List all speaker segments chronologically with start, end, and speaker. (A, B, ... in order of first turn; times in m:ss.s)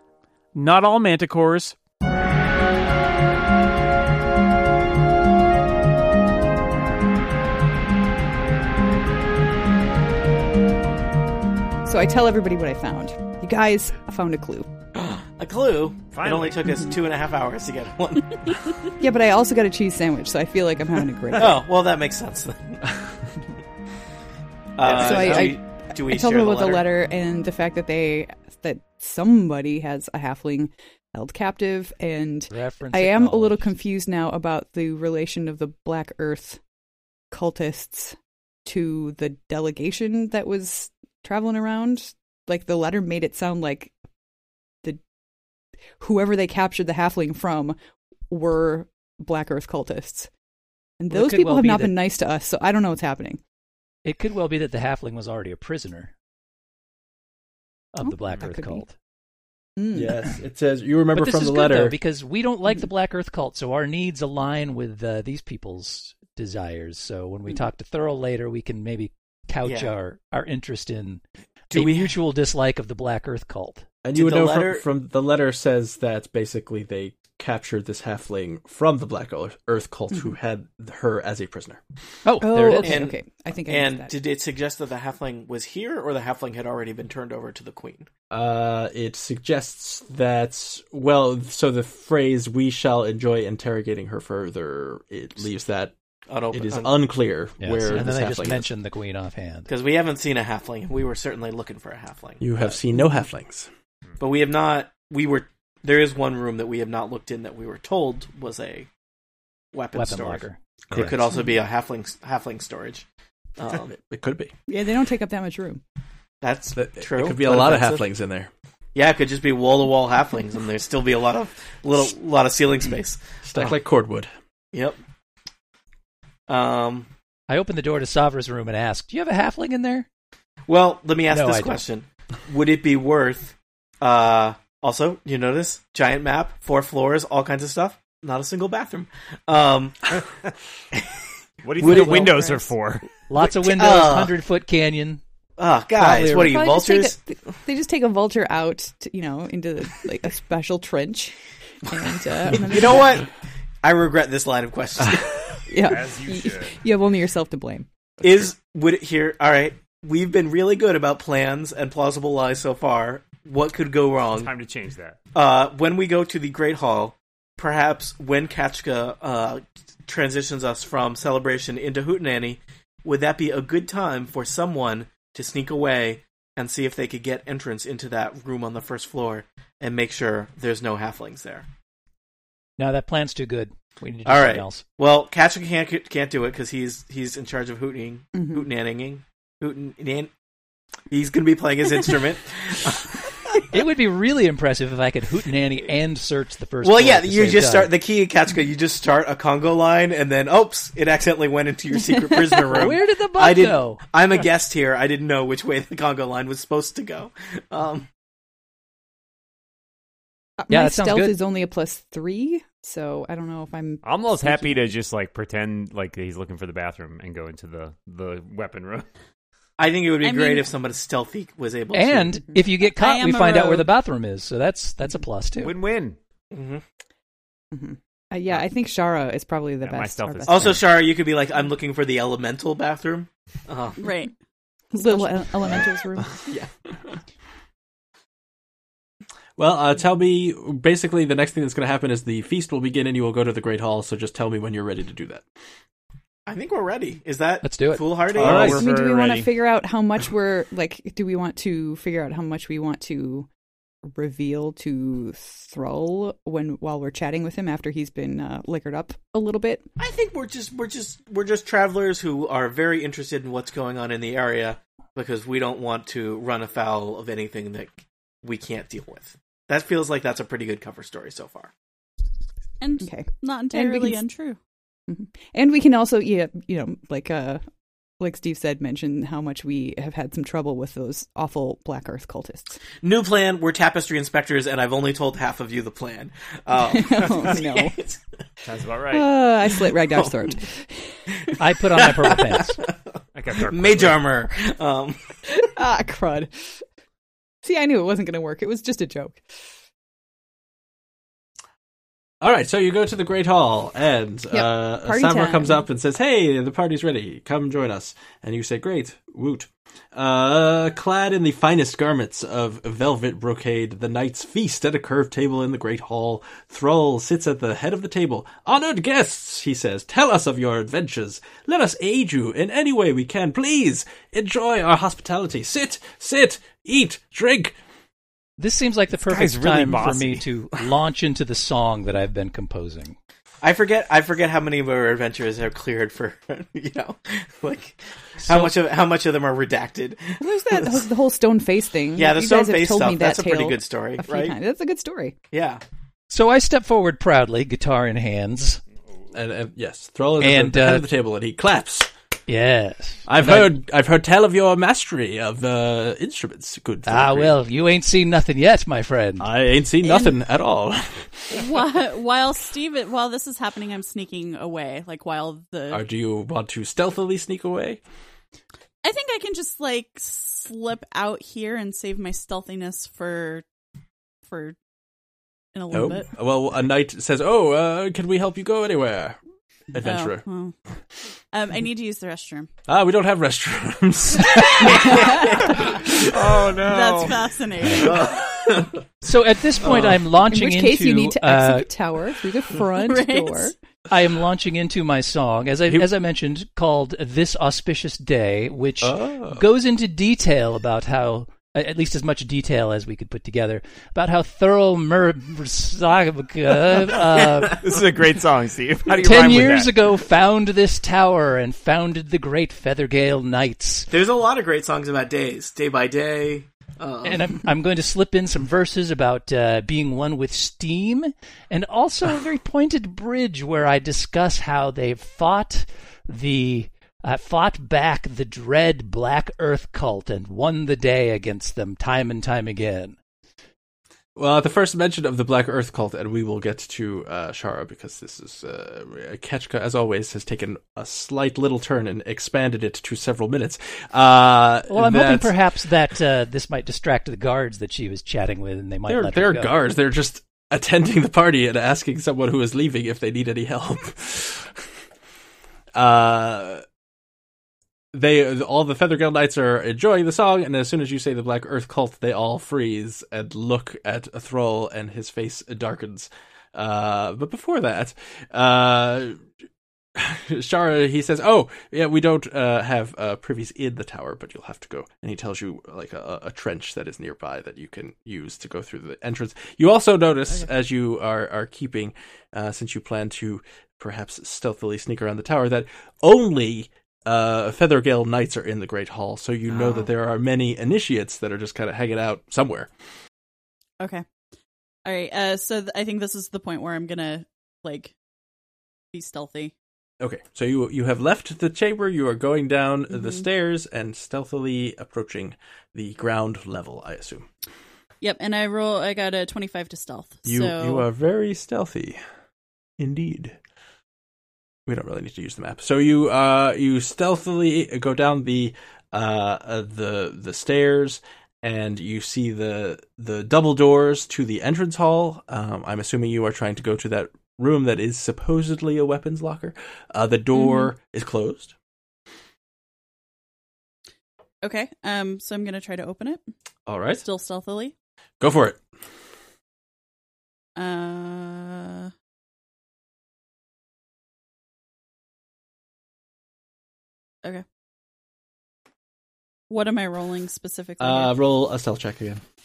0:00.5-0:01.8 A
0:11.8-0:14.7 B
0:14.9-0:18.6 C
0:16.1-0:16.6 D
0:19.0-0:21.6 B
0:21.4-0:22.9 C
0:24.8-0:26.9 C
0:24.8-0:36.6 B
0:32.5-0:33.7 E
0:37.3-0:43.9 B
0:46.0-0:47.8 B
0:48.3-0:50.3 B
0:51.0-0:53.4 B
0:51.1-0:52.0 E
0:54.0-0:56.1 E
0:57.9-0:58.9 E
0:58.0-0:58.8 B
0:59.8-1:00.3 B
0:59.9-1:02.0 F
1:01.1-1:13.8 E
1:09.6-1:09.9 C
1:11.7-1:12.1 C
1:14.0-1:21.8 F
1:14.1-1:14.8 C
1:22.2-1:23.0 E
1:22.4-1:24.1 B
1:22.8-1:28.1 C
1:28.3-1:35.9 F
1:36.3-1:36.9 C
1:36.5-1:38.7 F
1:37.6-1:39.7 E
1:39.7-1:42.8 C
1:42.4-1:43.7 F
1:44.2-1:48.9 C
1:49.7-1:53.0 C
1:49.9-1:51.2 E
1:53.6-1:53.9 C
1:53.9-1:54.5 F
1:54.7-1:55.8 B
1:56.4-1:58.1 C
1:56.8-1:58.5 F
1:58.9-2:03.8 C
2:03.4-2:04.3 F
2:04.7-2:05.0 C
2:06.5-2:07.1 C
2:07.5-2:10.1 E
2:10.7-2:20.2 C
2:11.3-2:11.8 E
2:21.6-2:23.0 D
2:21.8-2:22.4 C
2:21.8-2:22.3 E
2:22.3-2:22.6 B
2:23.3-2:25.2 E
2:23.4-2:24.3 C
2:25.6-2:27.2 C
2:26.0-2:33.2 B
2:26.0-2:26.4 E
2:32.6-2:33.3 C
2:33.8-2:35.6 C
2:35.7-2:37.9 B
2:35.8-2:36.8 D
2:38.2-2:44.5 C
2:44.3-2:45.2 D
2:45.3-3:01.7 C
3:02.8-3:04.8 E
3:04.2-3:10.3 C
3:08.3-3:08.7 B
3:11.1-3:13.6 C
3:13.7-3:17.9 E
3:16.8-3:28.1 C
3:22.7-3:24.0 E
3:30.6-3:34.8 B
3:30.7-3:31.4 E
3:34.0-3:39.1 D
3:39.8-3:42.3 C
3:40.2-3:40.7 G
3:41.9-3:45.8 E
3:43.0-3:43.9 G
3:45.6-3:46.2 D
3:46.5-3:46.8 C
3:47.7-3:50.8 B
3:49.8-3:50.8 D
3:50.5-3:54.1 C
3:54.0-3:54.3 G
3:54.9-3:56.4 B
3:59.6-4:05.4 F
4:06.4-4:08.8 C
4:07.6-4:08.1 E
4:08.3-4:09.5 A
4:08.4-4:08.8 F
4:08.5-4:13.5 B
4:14.1-4:19.9 B
4:20.0-4:31.7 C
4:32.8-4:34.6 G
4:33.0-4:34.2 B
4:35.1-4:37.6 B
4:38.2-4:42.8 B
4:43.0-4:48.2 C
4:46.8-4:48.0 B
4:48.6-4:49.3 D
4:49.1-4:50.9 B
4:49.9-4:50.3 C
4:51.6-4:52.8 E
4:51.9-4:55.2 C
4:53.3-4:54.3 D
4:55.7-4:56.5 B
4:57.6-4:59.4 B
5:02.4-5:27.8 F
5:04.5-5:05.8 B
5:28.6-5:33.1 E
5:29.1-5:30.4 D
5:33.6-5:41.0 C
5:38.4-5:38.7 E
5:40.4-5:45.3 B
5:42.2-5:44.6 C
5:45.5-5:45.8 C
5:46.3-5:48.8 E
5:49.3-5:52.1 F
5:50.4-5:51.0 E
5:52.5-5:53.8 E
5:53.3-5:57.6 F
5:57.0-5:59.5 E
5:59.4-6:01.6 F
6:00.0-6:00.4 G
6:01.5-6:06.0 G
6:05.9-6:08.0 F
6:09.0-6:13.6 G
6:14.5-6:14.8 G
6:15.7-6:16.3 G
6:15.9-6:19.4 F
6:19.9-6:20.4 F
6:20.0-6:20.7 G
6:21.5-6:22.7 G
6:22.9-6:26.3 F
6:24.8-6:25.8 C
6:25.1-6:25.4 B
6:26.5-6:27.2 D
6:26.8-6:27.2 A
6:26.8-6:28.3 G
6:28.0-6:29.0 C
6:29.2-6:31.9 E
6:29.8-6:30.2 F
6:29.9-6:33.7 B
6:33.0-6:33.7 G
6:34.1-6:47.8 E
6:39.0-6:39.6 F
6:47.6-6:49.9 D
6:49.1-6:54.1 E
6:54.1-6:57.5 C
6:57.2-7:13.2 E
7:14.4-7:25.5 F
7:24.9-7:29.7 E
7:29.1-7:34.8 F
7:35.9-7:36.8 F
7:38.1-7:49.4 F
7:50.1-8:12.9 F
8:14.0-8:14.2 G
8:15.0-8:18.1 G
8:19.1-8:19.7 G
8:20.2-8:27.5 F
8:23.1-8:23.4 G
8:28.2-8:31.1 G
8:30.4-8:32.2 F
8:33.0-8:33.6 F
8:34.9-8:51.7 F
8:50.5-8:50.9 G
8:54.6-8:56.4 G
8:56.9-8:57.2 F
8:57.2-8:57.9 G
8:58.4-8:58.8 F
9:00.8-9:02.1 G
9:09.7-9:11.3 G
9:11.0-9:12.4 F